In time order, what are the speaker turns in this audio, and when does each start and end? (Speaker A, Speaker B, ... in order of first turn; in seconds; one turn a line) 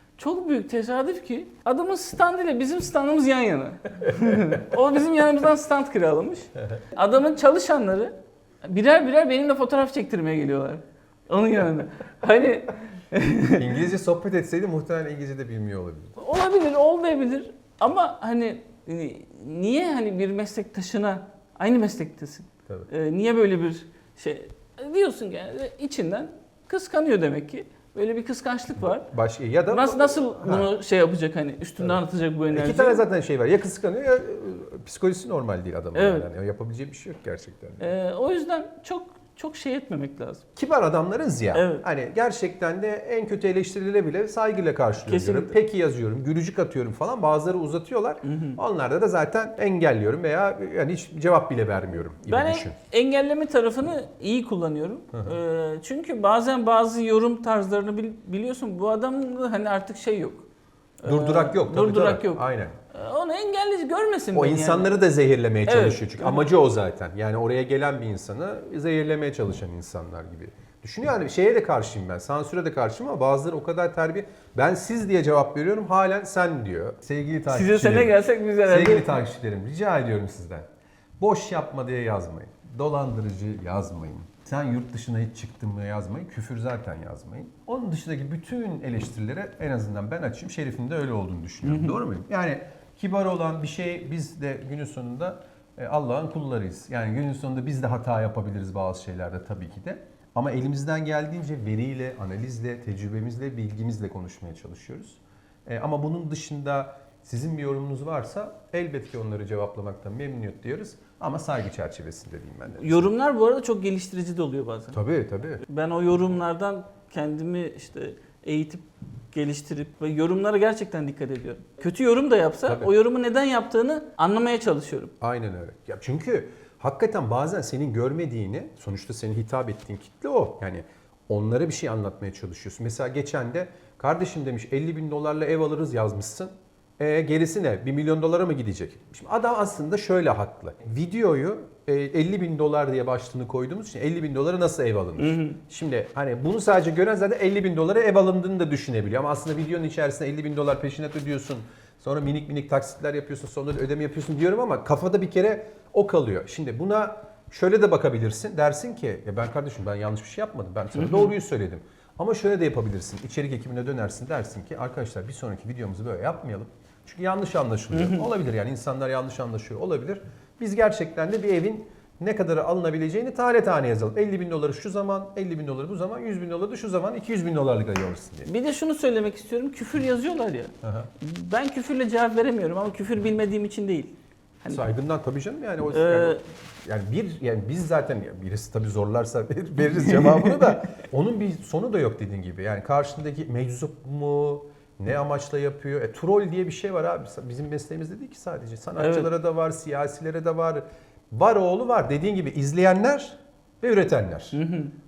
Speaker A: 0.2-13.7
Speaker B: 4.1-4.6
Speaker B: 13.5-16.2
Speaker A: 16.2-29.1
Speaker B: 29.0-30.7
Speaker A: 29.7-33.0
Speaker B: 32.5-37.9
Speaker A: 35.9-36.3
Speaker A: 37.8-40.4
Speaker B: 40.6-52.8
Speaker A: 41.5-41.9
Speaker A: 45.0-45.5
Speaker A: 48.2-48.6
Speaker A: 52.2-60.5
Speaker A: 61.0-65.0
Speaker B: 61.0-62.8
Speaker B: 64.3-80.7
Speaker A: 65.7-66.5
Speaker A: 77.5-79.2
Speaker B: 81.2-113.1
Speaker A: 91.6-92.0
Speaker A: 112.8-115.0
Speaker B: 114.9-115.6
Speaker A: 115.6-125.1
Speaker B: 125.2-178.5
Speaker A: 145.2-145.6
Speaker A: 160.9-161.3
Speaker A: 167.9-168.3
Speaker A: 178.5-184.9
Speaker B: 180.8-181.1
Speaker B: 184.7-204.6
Speaker A: 185.9-186.4
Speaker A: 190.0-190.8
Speaker A: 199.0-199.3
Speaker A: 204.5-204.9